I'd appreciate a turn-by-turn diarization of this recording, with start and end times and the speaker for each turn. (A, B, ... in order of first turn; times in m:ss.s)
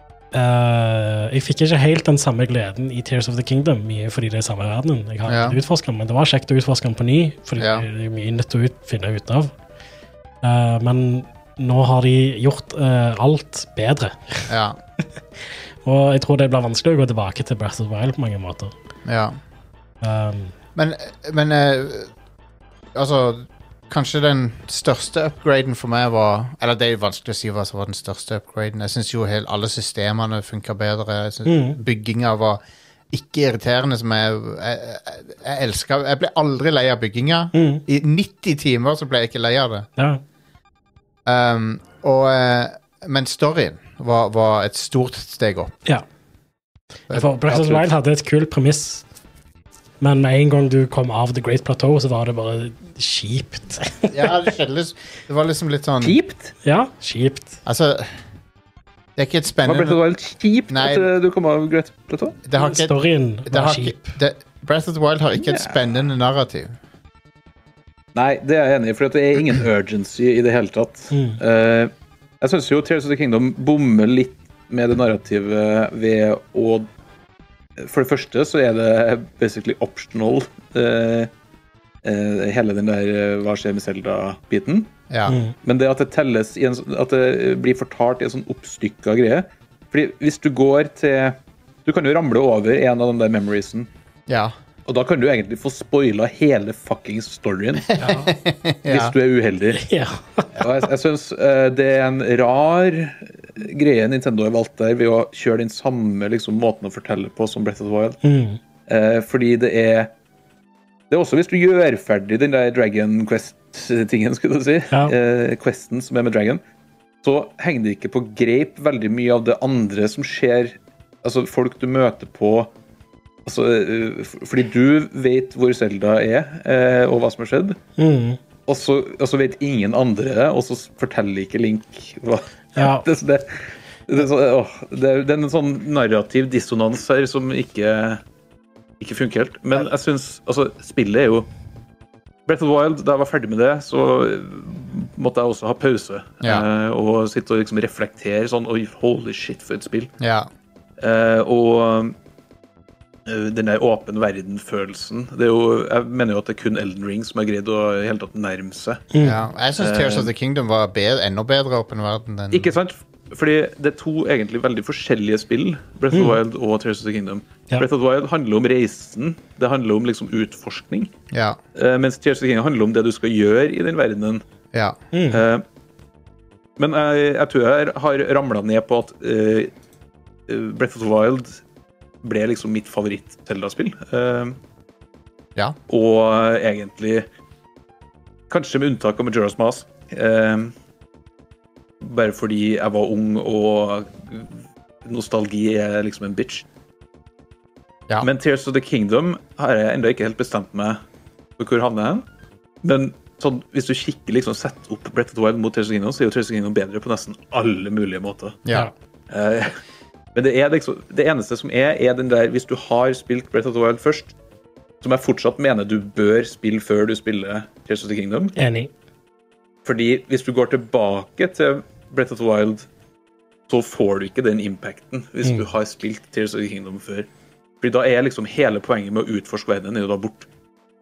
0:00.3-0:09.5 A
0:05.3-0:05.6 B
0:07.6-0:07.9 B
0:10.4-0:14.5 A
0:14.5-0:14.8 B
0:15.4-0:18.7 A
0:19.1-0:19.4 B
0:20.0-0:20.5 A
0:20.8-0:22.1 B
0:23.0-0:32.6 B
0:31.4-0:31.8 A
0:33.1-0:39.9 B
0:37.5-0:37.8 A
0:40.0-0:40.2 A
0:41.3-0:45.7 B
0:47.1-0:49.0 A
0:47.5-0:47.9 C
0:50.0-0:54.4 A
0:54.1-0:56.2 B
0:56.0-0:56.6 C
0:56.6-0:57.6 A
0:57.6-0:58.1 B
0:59.2-1:00.0 B
0:59.6-1:02.4 C
1:00.7-1:01.1 B
1:02.5-1:06.7 B
1:02.6-1:04.2 A
1:05.4-1:05.9 C
1:08.2-1:16.9 C
1:11.1-1:11.4 A
1:17.8-1:21.3 C
1:22.0-1:24.9 C
1:25.1-1:25.4 B
1:25.3-1:25.5 A
1:25.6-1:33.9 C
1:34.3-1:34.5 B
1:34.9-1:38.1 C
1:38.0-1:39.1 B
1:38.0-1:38.3 A
1:38.9-1:39.8 C
1:39.7-1:40.7 A
1:40.6-1:48.2 C
1:48.2-1:48.6 A
1:48.9-1:50.1 C
1:51.1-1:56.6 C
1:57.2-2:02.7 C
2:03.5-2:07.8 C
2:08.0-2:08.4 A
2:08.7-2:18.2 C
2:12.8-2:13.1 A
2:19.0-2:21.5 C
2:22.5-2:30.1 C
2:30.2-2:30.5 B
2:31.0-2:32.2 C
2:33.3-2:39.1 C
2:39.1-2:39.4 A
2:39.2-2:42.7 B
2:39.8-2:40.3 C
2:42.5-2:51.1 C
2:46.1-2:46.4 A
2:51.3-2:51.6 B
2:51.8-2:54.4 C
2:55.1-2:55.4 A
2:55.3-2:55.6 C
2:56.8-2:59.7 C
3:00.5-3:01.6 C
3:02.2-3:04.6 C
3:05.9-3:07.3 C
3:08.5-3:10.7 C
3:12.0-3:14.5 C
3:15.0-3:16.7 C
3:18.2-3:21.0 C
3:21.6-3:22.2 C
3:22.8-3:28.6 C
3:29.3-3:29.8 C
3:30.4-3:34.3 C
3:35.0-3:38.6 C
3:38.6-3:38.9 A
3:39.8-3:42.9 C
3:43.7-3:47.3 C
3:47.8-3:50.5 C